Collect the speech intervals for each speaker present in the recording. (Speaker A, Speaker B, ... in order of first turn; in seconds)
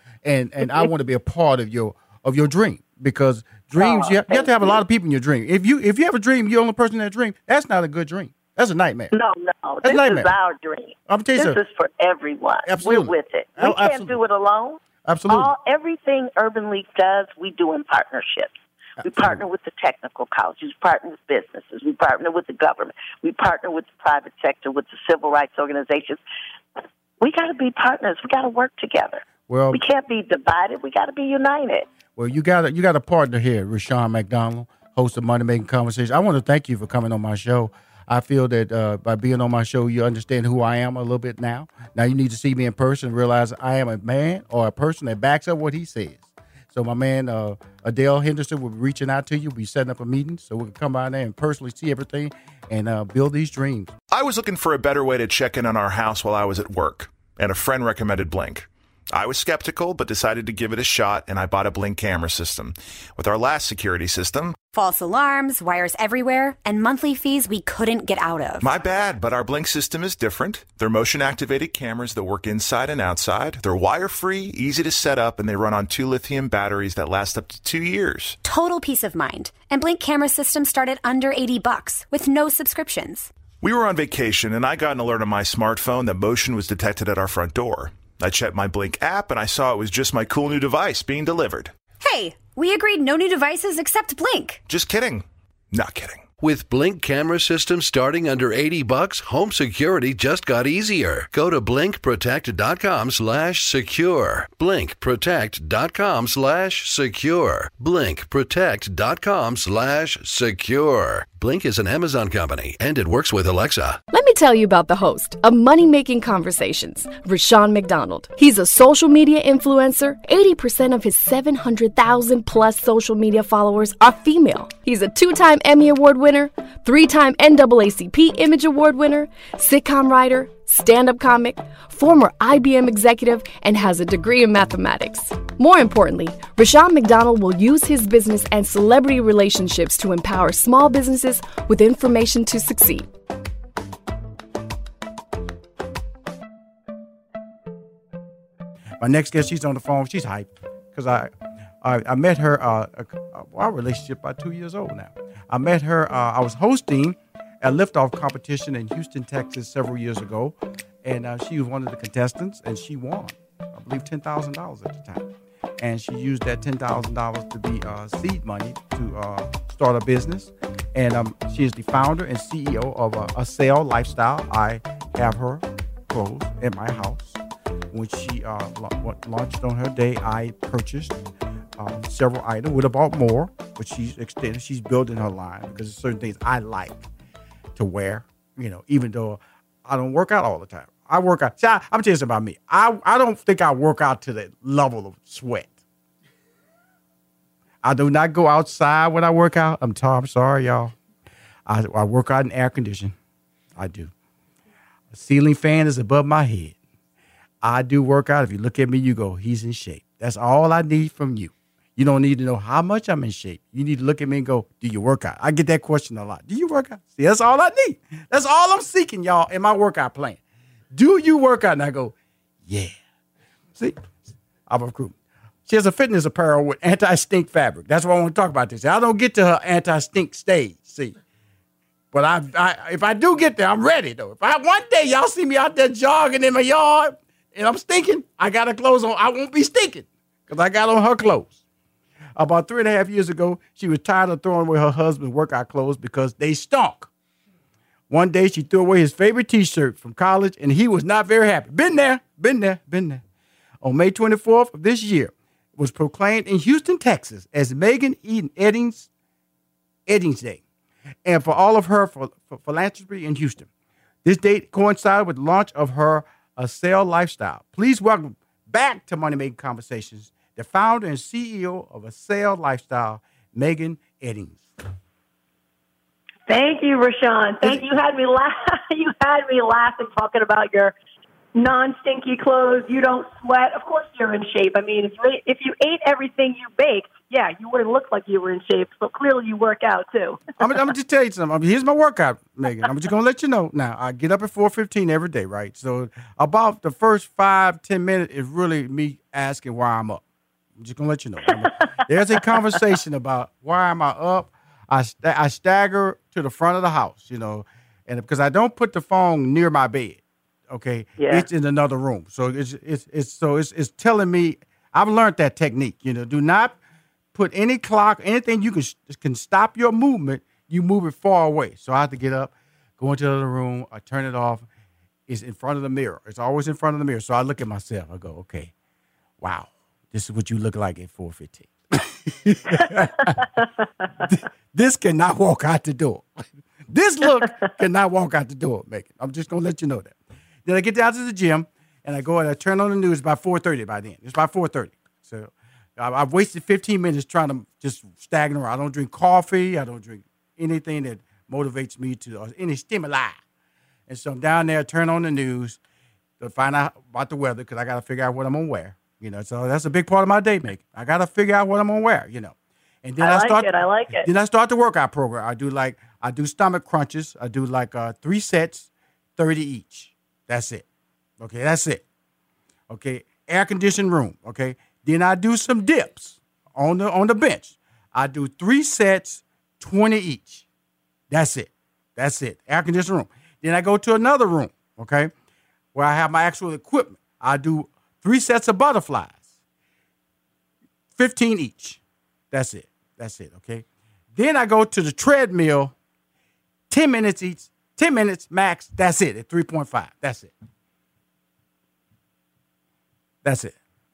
Speaker A: 0.2-9.1, 9.8-10.3, 11.1-11.6, 12.7-14.2, 15.1-15.5, 19.0-19.4, 29.5-29.8, 32.2-53.9, 149.0-177.4, 177.9-181.2, 181.8-187.1, 187.8-195.8, 197.8-200.9, 201.7-203.2, 203.8-204.1, 205.1-206.8, 207.6-220.4, 220.9-222.9, 223.7-231.2, 232.1-241.6, 242.4-247.1, 248.1-253.2, 253.8-259.1, 260.1-260.6, 261.2-263.7, 264.2-274.7, 290.6-300.2, 300.8-316.8, 317.3-324.7, 325.3-328.7, 329.4-333.4, 334.2-353.4, 354.1-355.8, 356.4-370.9, 371.4-372.0, 372.9-380.7, 381.3-385.3, 385.9-389.4, 391.2-395.9, 396.9-400.5, 403.4-403.8
Speaker B: 3.8-4.8, 9.1-26.2, 27.2-31.9
Speaker C: 54.1-64.6, 68.6-78.4, 83.6-91.7, 94.7-96.2
Speaker D: 64.7-68.7, 78.4-83.3, 92.0-94.6
Speaker E: 96.4-114.0
Speaker F: 114.1-143.1
Speaker G: 276.5-280.9, 281.6-290.5, 311.2-311.4, 363.2-364.3